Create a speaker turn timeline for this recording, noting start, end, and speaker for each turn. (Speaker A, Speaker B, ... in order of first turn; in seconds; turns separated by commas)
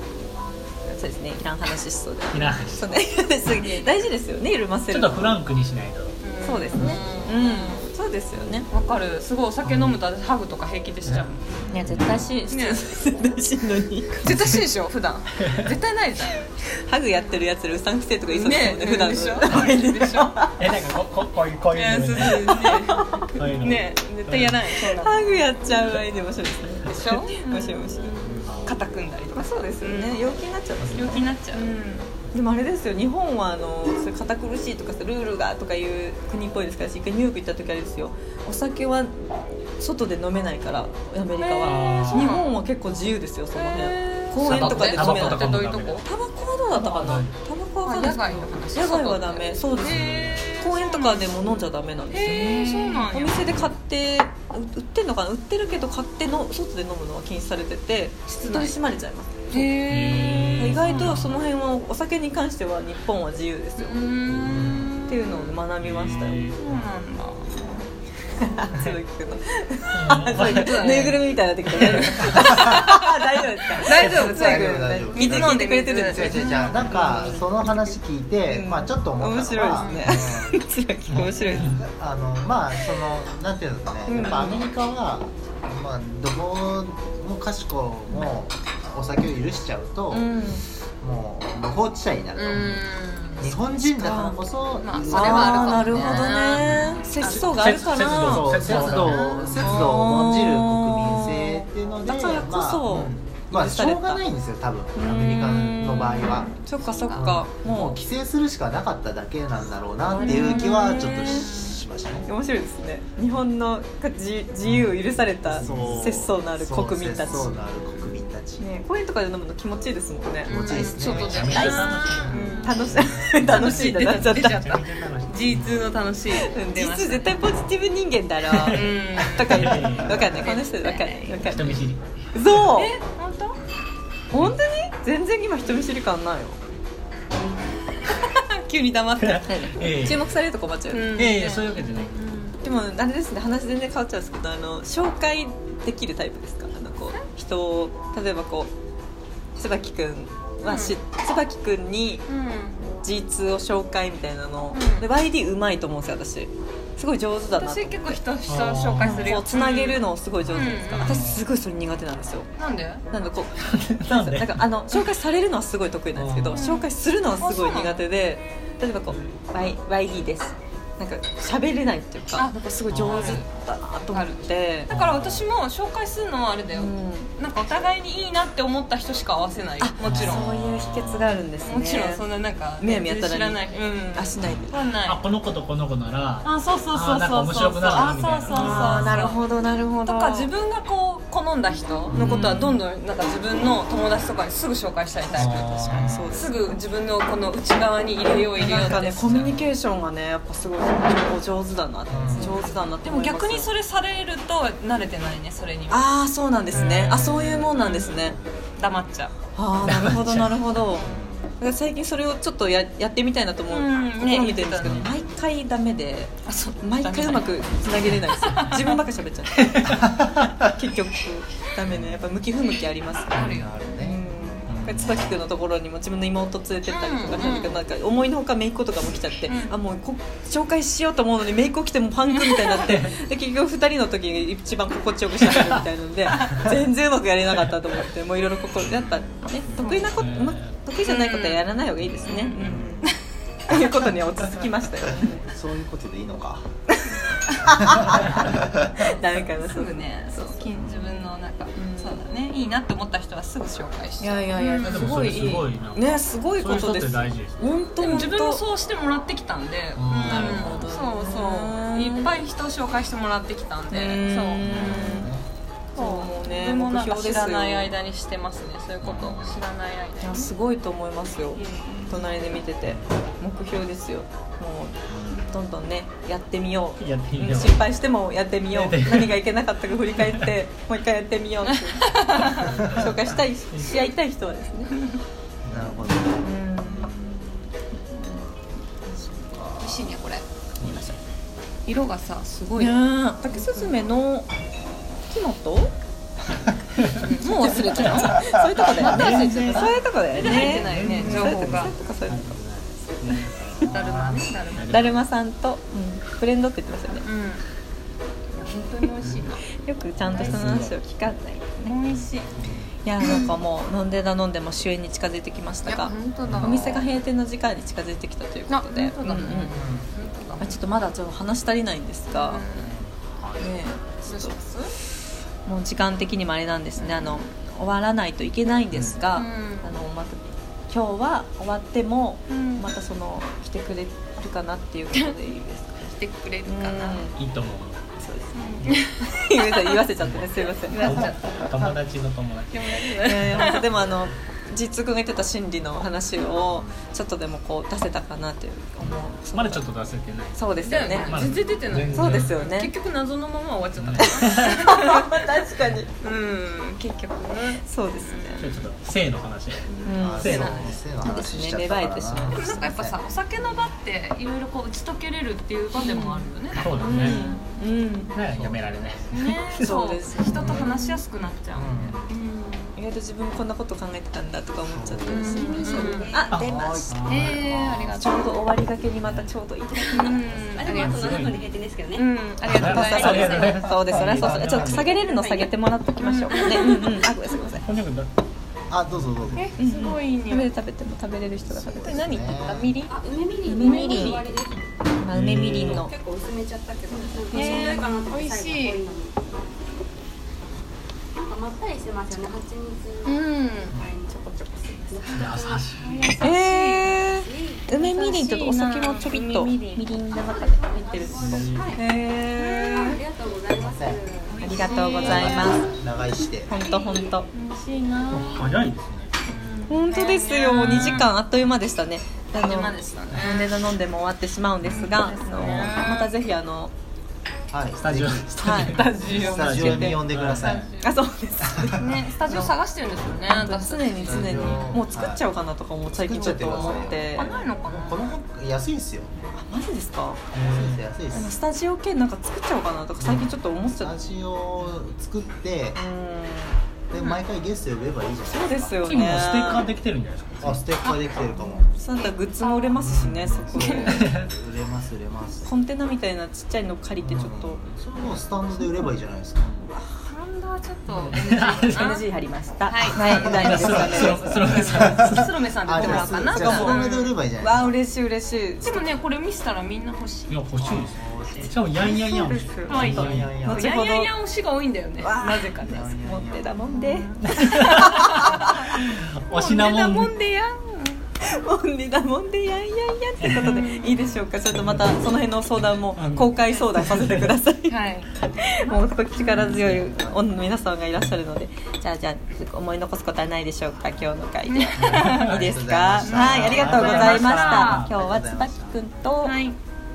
Speaker A: 0.9-5.4, Speaker B: 2.3-2.9, Speaker C: 3.5-4.0, Speaker B: 4.9-6.2, Speaker C: 6.2-7.9, Speaker A: 6.4-8.7, Speaker C: 8.7-11.6, Speaker B: 9.7-9.9, Speaker A: 11.7-14.4, Speaker C: 12.5-12.9, Speaker C: 14.2-16.5, Speaker A: 16.8-20.6, Speaker C: 17.1-17.4, Speaker C: 18.3-20.4, Speaker B: 20.6-22.7, Speaker C: 21.7-25.8, Speaker A: 22.4-23.2, Speaker B: 23.4-24.6, Speaker A: 24.8-28.3, Speaker C: 26.9-30.2, Speaker D: 28.2-28.6, Speaker A: 29.3-59.8, Speaker C: 30.9-32.0, Speaker C: 41.4-42.6, Speaker B: 41.6-42.3, Speaker C: 43.5-46.0, Speaker B: 44.4-46.0, Speaker C: 46.8-47.2, Speaker B: 47.0-47.3, Speaker C: 47.8-51.4, Speaker B: 49.8-50.5, Speaker C: 52.1-53.5, Speaker C: 58.3-58.8, Speaker C: 59.5-61.3, Speaker B: 59.8-61.3, Speaker A: 60.6-64.1, Speaker C: 63.8-65.6, Speaker D: 64.4-65.0, Speaker A: 65.1-66.4, Speaker B: 65.8-66.7, Speaker C: 66.6-67.6, Speaker A: 68.4-78.0, Speaker B: 70.0-70.9, Speaker C: 70.3-71.3, Speaker C: 71.8-72.9, Speaker D: 72.3-72.9, Speaker C: 73.8-77.4, Speaker D: 74.0-80.6, Speaker A: 78.5-81.8, Speaker C: 79.7-80.2, Speaker D: 81.4-90.3, Speaker A: 84.1-84.6, Speaker A: 90.1-90.6, Speaker D: 91.0-92.9, Speaker C: 92.4-93.6, Speaker D: 93.4-96.4, Speaker A: 93.8-94.4, Speaker C: 94.8-98.1, Speaker A: 95.1-104.2, Speaker B: 97.2-99.3, Speaker D: 98.2-106.5, Speaker C: 98.7-99.8, Speaker A: 105.0-108.0, Speaker C: 106.6-107.5, Speaker D: 107.1-112.3, Speaker A: 110.1-111.5, Speaker C: 110.2-111.8, Speaker A: 112.3-117.6, Speaker D: 115.5-118.7, Speaker B: 115.6-115.9, Speaker A: 118.6-124.7, Speaker C: 120.5-122.8, Speaker D: 120.5-122.5, Speaker B: 121.1-122.4, Speaker C: 123.4-127.4, Speaker B: 123.4-125.8, Speaker A: 126.3-131.8, Speaker B: 128.5-130.3, Speaker C: 128.7-131.4, Speaker B: 131.4-132.7, Speaker A: 132.3-133.0, Speaker C: 132.8-133.6, Speaker A: 134.3-136.6, Speaker C: 137.9-139.6, Speaker B: 139.2-140.2, Speaker A: 139.5-141.3, Speaker C: 140.9-142.6, Speaker B: 141.2-142.3, Speaker A: 142.6-148.7, Speaker A: 149.6-152.3, Speaker C: 150.7-150.9, Speaker C: 152.3-152.8, Speaker A: 152.9-158.2, Speaker C: 154.7-155.1, Speaker C: 157.5-161.2, Speaker B: 158.5-159.3, Speaker A: 159.0-162.5, Speaker B: 160.6-161.4, Speaker C: 162.6-163.0, Speaker A: 163.1-174.9, Speaker B: 163.6-164.7, Speaker B: 166.2-166.6, Speaker C: 166.5-168.1, Speaker C: 172.4-173.5, Speaker B: 172.9-173.4, Speaker C: 174.1-180.5, Speaker B: 174.9-175.5, Speaker A: 176.7-177.3, Speaker A: 179.8-182.3, Speaker B: 180.1-180.7, Speaker C: 181.6-185.2, Speaker A: 182.8-184.8, Speaker B: 185.1-189.2, Speaker C: 186.4-189.4, Speaker A: 188.5-190.5, Speaker C: 190.0-199.5, Speaker D: 192.1-192.6, Speaker A: 192.1-192.8, Speaker B: 195.4-196.1, Speaker D: 195.4-196.3, Speaker A: 195.4-196.7, Speaker A: 198.6-203.7, Speaker D: 202.1-202.6, Speaker C: 202.3-206.0, Speaker A: 205.9-208.4, Speaker C: 206.7-209.3, Speaker B: 206.8-207.6, Speaker A: 209.6-223.5, Speaker B: 209.8-210.7, Speaker D: 210.9-211.5, Speaker C: 213.7-215.1, Speaker C: 216.5-219.1, Speaker B: 219.7-220.0, Speaker D: 219.9-220.5, Speaker D: 223.3-224.2, Speaker C: 223.3-223.9, Speaker A: 224.0-243.0, Speaker B: 224.7-225.3, Speaker C: 226.9-227.8, Speaker C: 229.5-229.8, Speaker B: 232.8-233.2, Speaker C: 236.3-236.6, Speaker C: 239.7-240.2, Speaker B: 240.1-240.8, Speaker C: 241.0-241.6, Speaker C: 242.3-243.2, Speaker D: 242.6-243.1, Speaker A: 243.7-245.5, Speaker D: 245.5-246.7, Speaker A: 247.7-250.7, Speaker D: 247.9-248.9, Speaker C: 249.5-255.2, Speaker A: 251.8-252.3, Speaker A: 254.2-258.6, Speaker B: 254.8-258.2, Speaker C: 258.0-265.2, Speaker B: 260.0-260.9, Speaker A: 260.2-262.3, Speaker A: 263.9-265.3, Speaker D: 264.6-265.4, Speaker A: 265.9-267.9, Speaker C: 266.0-270.5, Speaker A: 270.2-275.0, Speaker C: 271.6-272.1, Speaker D: 275.1-275.5, Speaker A: 275.5-285.0, Speaker B: 277.0-277.8, Speaker B: 278.7-279.4, Speaker C: 282.0-282.8, Speaker B: 282.6-283.0, Speaker D: 282.7-283.1, Speaker D: 285.7-287.4, Speaker A: 286.4-287.3, Speaker A: 287.9-288.5, Speaker A: 289.1-289.4, Speaker D: 289.5-289.8, Speaker C: 289.8-290.4, Speaker A: 290.8-291.2, Speaker C: 291.9-294.0, Speaker A: 292.8-294.5, Speaker A: 295.3-295.9, Speaker C: 297.1-301.9, Speaker A: 297.4-303.9, Speaker D: 298.3-299.4, Speaker B: 298.9-303.7, Speaker D: 303.8-304.4, Speaker C: 303.8-305.1, Speaker B: 304.8-305.2, Speaker A: 304.9-307.3, Speaker C: 307.2-307.6, Speaker C: 308.5-309.6, Speaker A: 309.8-312.0, Speaker B: 310.2-310.9, Speaker C: 311.9-312.6, Speaker D: 312.6-312.9, Speaker A: 313.1-319.8, Speaker C: 313.2-313.5, Speaker C: 315.9-317.1, Speaker D: 316.4-316.8, Speaker C: 318.7-320.8, Speaker D: 319.5-320.1, Speaker A: 320.6-322.6, Speaker C: 322.3-323.0, Speaker D: 322.8-323.6, Speaker A: 323.6-324.6, Speaker C: 324.2-324.9, Speaker A: 325.6-336.1, Speaker C: 327.0-327.5, Speaker C: 329.3-330.0, Speaker C: 332.5-332.9, Speaker C: 336.0-337.3, Speaker A: 336.6-337.4, Speaker B: 337.4-338.0, Speaker A: 338.2-341.2, Speaker C: 338.5-340.0, Speaker C: 340.8-341.6, Speaker B: 341.0-342.9, Speaker C: 342.7-343.8, Speaker A: 343.2-349.9, Speaker D: 346.7-347.0, Speaker B: 349.4-350.6, Speaker A: 350.5-351.4, Speaker C: 350.8-355.5, Speaker B: 351.2-352.7, Speaker A: 352.1-352.9, Speaker B: 354.0-354.8, Speaker A: 354.2-356.1, Speaker C: 356.2-358.9, Speaker A: 357.9-358.7, Speaker B: 358.6-359.9, Speaker C: 359.9-361.0, Speaker A: 360.1-362.9, Speaker D: 360.2-363.2, Speaker B: 360.4-360.8, Speaker C: 362.5-367.6, Speaker A: 365.9-368.3, Speaker B: 366.8-367.4, Speaker B: 368.3-369.9, Speaker D: 368.5-369.3, Speaker C: 369.3-372.9, Speaker A: 369.3-371.2, Speaker D: 370.6-370.9, Speaker D: 371.8-372.3, Speaker A: 372.9-377.2, Speaker D: 374.9-375.4, Speaker C: 375.3-376.4, Speaker E: 375.3-376.6, Speaker B: 376.5-377.5, Speaker D: 376.6-378.2, Speaker C: 377.2-378.6, Speaker A: 378.2-380.4, Speaker C: 380.1-381.4, Speaker E: 380.8-382.3, Speaker B: 380.8-381.7, Speaker C: 382.1-384.0, Speaker B: 382.7-385.1, Speaker A: 382.7-387.9, Speaker E: 384.7-385.8, Speaker C: 386.2-387.2, Speaker E: 386.6-387.1, Speaker B: 387.8-388.3, Speaker D: 388.9-389.9, Speaker C: 389.6-390.7, Speaker A: 389.8-392.6, Speaker D: 391.6-393.0, Speaker C: 392.1-393.1, Speaker E: 393.1-394.9, Speaker A: 393.7-394.5, Speaker C: 393.7-394.4, Speaker A: 395.2-396.1, Speaker B: 395.3-396.0, Speaker E: 395.9-399.7, Speaker C: 397.5-399.0, Speaker A: 397.5-398.1, Speaker E: 401.3-404.4, Speaker C: 403.2-403.9, Speaker A: 404.3-405.4, Speaker E: 405.1-405.9, Speaker B: 405.3-406.5, Speaker C: 406.0-407.1, Speaker A: 406.4-413.2, Speaker E: 407.2-407.9, Speaker C: 408.0-410.1, Speaker E: 410.3-412.0, Speaker B: 411.3-412.0, Speaker C: 412.6-413.2, Speaker E: 412.9-415.4, Speaker D: 413.7-414.2, Speaker C: 414.4-415.8, Speaker A: 414.6-415.9, Speaker D: 415.1-416.7, Speaker A: 416.7-417.5, Speaker C: 417.5-418.7, Speaker B: 418.3-419.3, Speaker C: 419.4-421.3, Speaker A: 419.9-426.9, Speaker C: 422.6-423.8, Speaker C: 424.9-426.3, Speaker D: 427.7-430.9, Speaker B: 428.0-430.9, Speaker A: 428.6-430.2, Speaker C: 429.3-429.6, Speaker C: 430.6-431.1, Speaker A: 431.0-432.7, Speaker C: 432.0-435.0, Speaker A: 433.5-437.5, Speaker D: 434.3-435.4, Speaker D: 436.1-439.3, Speaker C: 436.3-438.4, Speaker A: 439.5-440.4, Speaker B: 440.5-441.0, Speaker D: 440.5-441.5, Speaker A: 441.3-444.1, Speaker D: 443.2-446.0, Speaker A: 445.9-446.8, Speaker D: 447.1-449.0, Speaker C: 447.1-447.4, Speaker A: 448.5-449.9, Speaker B: 449.0-450.8, Speaker D: 450.6-451.9, Speaker C: 451.0-453.0, Speaker A: 451.9-454.3, Speaker D: 452.9-455.7, Speaker C: 453.8-454.2, Speaker B: 454.1-454.5, Speaker A: 455.6-458.9, Speaker D: 457.2-459.9, Speaker C: 460.2-462.3, Speaker B: 461.1-462.1, Speaker A: 461.8-464.9, Speaker C: 462.9-467.4, Speaker B: 463.1-465.5, Speaker D: 463.4-464.1, Speaker D: 464.9-465.3, Speaker D: 465.8-468.0, Speaker A: 465.9-469.0, Speaker C: 468.8-470.6, Speaker B: 470.5-473.6, Speaker D: 470.8-472.2, Speaker A: 472.1-474.3, Speaker C: 472.9-476.2, Speaker D: 472.9-473.9, Speaker A: 475.2-478.7, Speaker D: 475.8-477.0, Speaker C: 476.9-481.2, Speaker B: 477.5-480.3, Speaker A: 481.4-499.6, Speaker C: 483.6-484.2, Speaker B: 486.0-487.5, Speaker C: 487.9-489.8, Speaker B: 489.6-490.0, Speaker D: 490.1-490.4, Speaker C: 494.7-495.5, Speaker D: 495.1-497.1, Speaker C: 496.2-498.1, Speaker B: 496.7-498.1, Speaker D: 498.0-499.0, Speaker C: 499.4-499.8